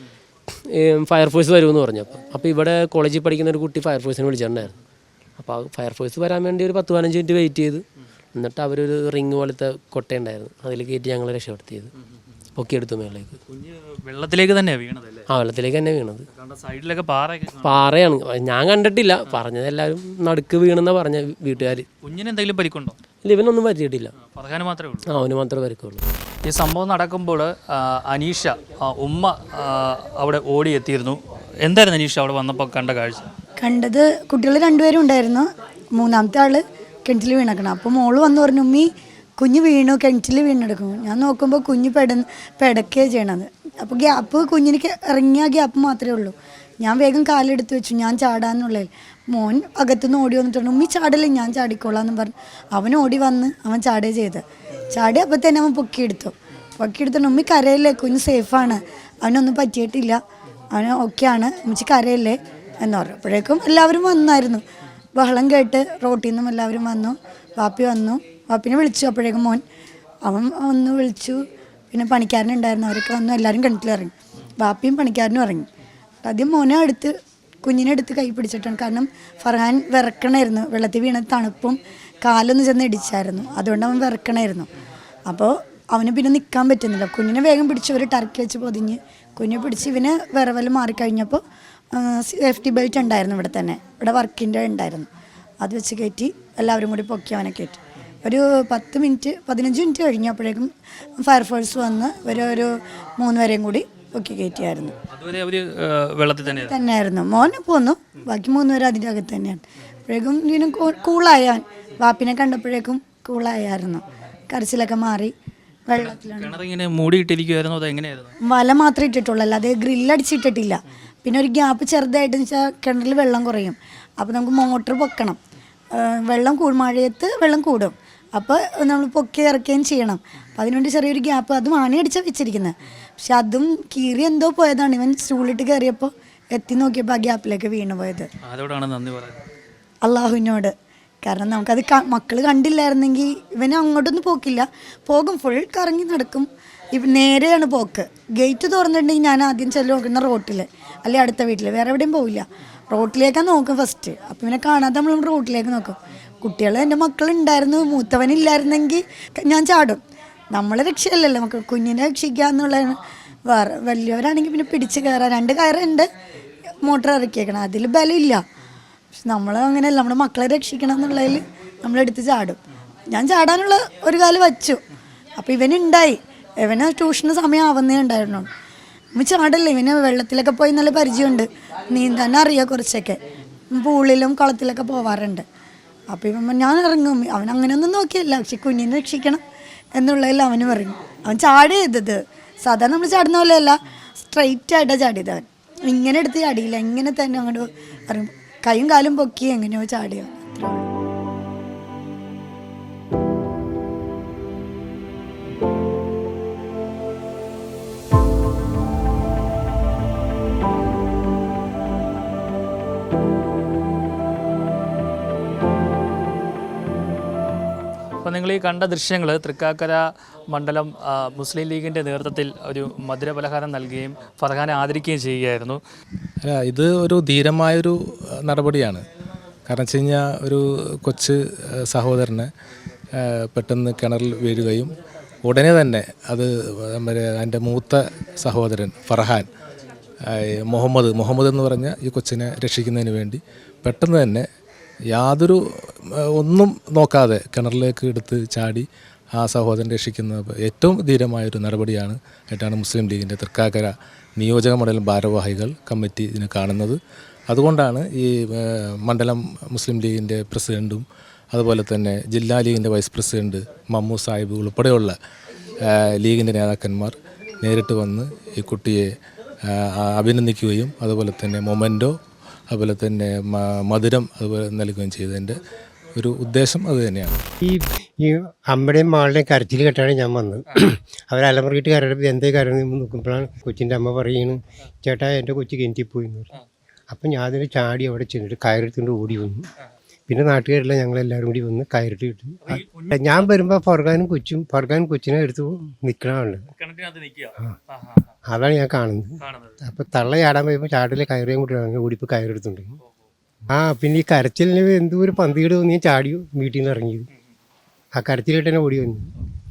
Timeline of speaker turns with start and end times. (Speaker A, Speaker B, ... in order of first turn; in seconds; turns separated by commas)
Speaker A: 0.5-4.8, Speaker A: 5.4-7.8, Speaker A: 8.3-11.9, Speaker A: 12.6-13.4, Speaker B: 13.5-15.3, Speaker A: 15.3-16.3, Speaker B: 16.3-17.9, Speaker A: 17.6-21.9, Speaker B: 22.0-23.0, Speaker A: 23.2-24.1, Speaker B: 24.2-25.1, Speaker A: 25.1-26.1, Speaker B: 26.5-33.3, Speaker C: 33.6-60.2, Speaker C: 60.7-64.6, Speaker C: 65.2-69.6, Speaker C: 70.2-71.4, Speaker C: 71.9-75.7, Speaker C: 76.2-77.1, Speaker C: 77.6-84.7, Speaker C: 85.3-91.4, Speaker C: 91.9-95.1, Speaker C: 95.6-100.7, Speaker C: 101.2-105.0, Speaker B: 105.1-106.8, Speaker C: 106.6-115.3, Speaker C: 115.9-116.5, Speaker B: 116.0-118.3, Speaker C: 118.4-125.4, Speaker C: 125.9-138.3, Speaker B: 138.5-139.4, Speaker C: 140.0-140.7, Speaker C: 141.2-160.0, Speaker C: 160.5-166.1, Speaker C: 166.8-168.4, Speaker C: 169.2-174.8, Speaker C: 175.4-178.5, Speaker C: 179.2-183.2, Speaker C: 183.7-185.4, Speaker C: 186.1-189.4, Speaker C: 189.9-200.9, Speaker B: 218.2-225.8, Speaker D: 226.4-229.0, Speaker D: 229.7-232.5, Speaker D: 233.2-239.5, Speaker D: 240.3-244.4, Speaker D: 245.1-265.1, Speaker D: 265.9-269.1, Speaker D: 269.7-272.1, Speaker D: 272.7-275.6, Speaker D: 276.1-277.4, Speaker E: 277.6-286.5, Speaker E: 287.1-289.7, Speaker E: 290.3-296.6, Speaker B: 292.7-293.5, Speaker B: 296.8-298.3, Speaker E: 298.5-302.9, Speaker B: 299.4-299.8, Speaker E: 303.7-307.3, Speaker E: 308.1-309.3